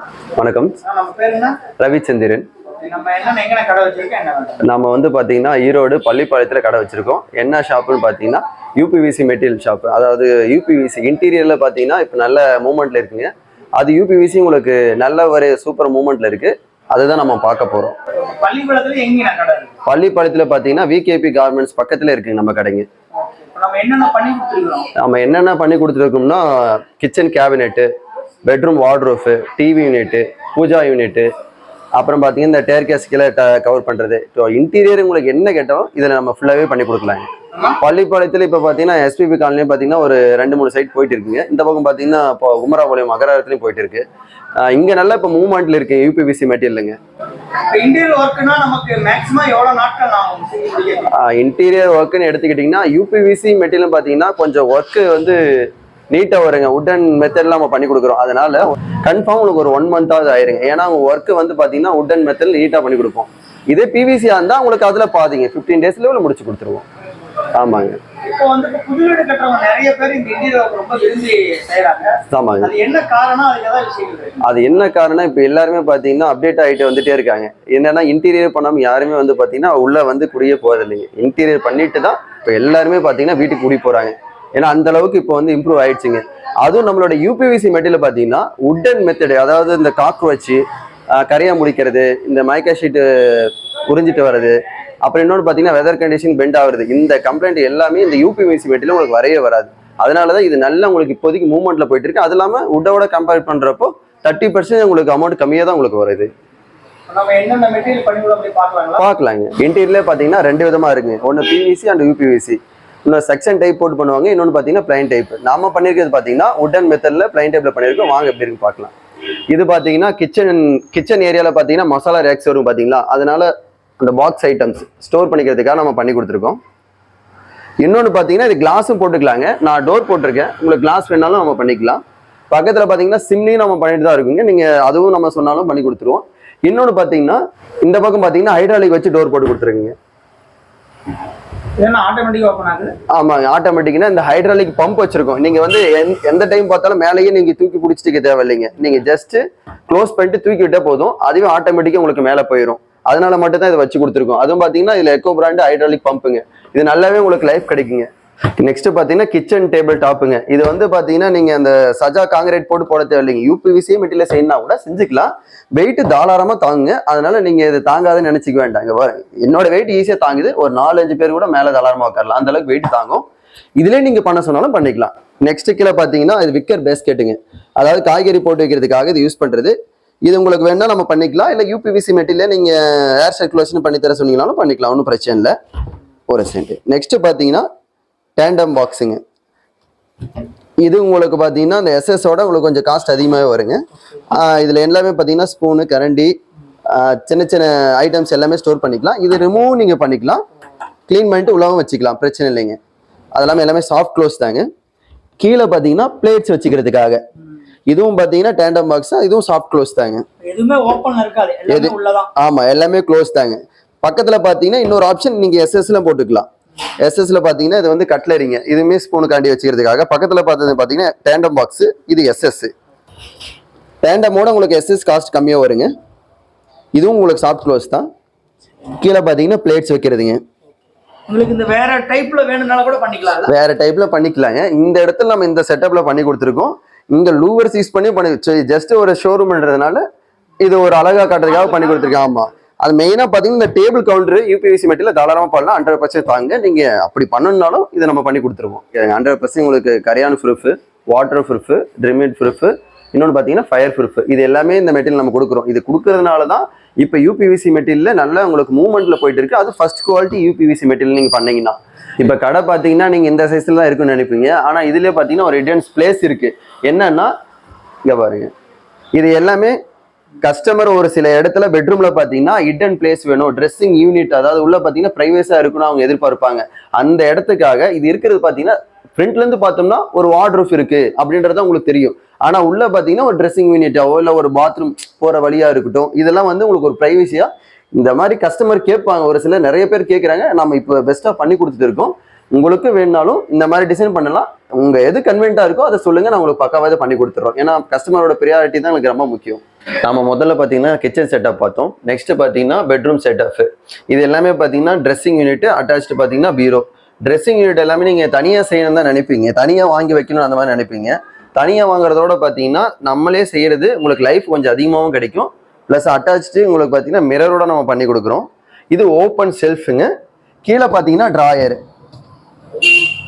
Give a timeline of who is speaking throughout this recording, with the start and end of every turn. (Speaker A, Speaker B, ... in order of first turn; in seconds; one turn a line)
Speaker A: 0.3-0.7
Speaker B: 0.8-1.6
Speaker A: 1.8-2.5
Speaker B: 2.8-4.6
Speaker A: 4.6-17.9
Speaker B: 18.1-19.7
Speaker A: 19.9-22.9
Speaker B: 23.2-24.9
Speaker A: 25.0-27.9
Speaker A: 28.4-31.3
Speaker A: 32.0-44.0
Speaker A: 44.6-47.0
Speaker B: 47.6-51.1
Speaker A: 51.1-55.4
Speaker A: 56.1-66.8
Speaker A: 67.5-68.0
Speaker B: 68.2-74.4
Speaker A: 72.3-72.7
Speaker A: 74.4-90.6
Speaker A: 91.2-106.3
Speaker B: 107.1-109.0
Speaker A: 109.0-118.9
Speaker A: 119.5-126.6
Speaker A: 127.8-139.9
Speaker B: 141.8-142.9
Speaker A: 143.1-158.1
Speaker A: 158.6-173.2
Speaker A: 173.8-179.7
Speaker A: 180.2-185.5
Speaker A: 186.3-187.7
Speaker A: 188.4-189.2
Speaker A: 190.8-196.3
Speaker A: 196.9-200.4
Speaker A: 201.1-202.8
Speaker A: 203.3-204.7
Speaker A: 205.4-207.2
Speaker A: 207.9-210.2
Speaker B: 210.4-212.3
Speaker A: 211.7-216.5
Speaker A: 217.0-222.7
Speaker A: 224.0-225.9
Speaker A: 226.9-228.1
Speaker A: 229.0-230.4
Speaker B: 231.3-233.5
Speaker A: 233.5-240.0
Speaker A: 240.6-267.3
Speaker A: 268.1-268.5
Speaker A: 269.2-269.8
Speaker A: 270.4-320.1
Speaker A: 320.6-321.8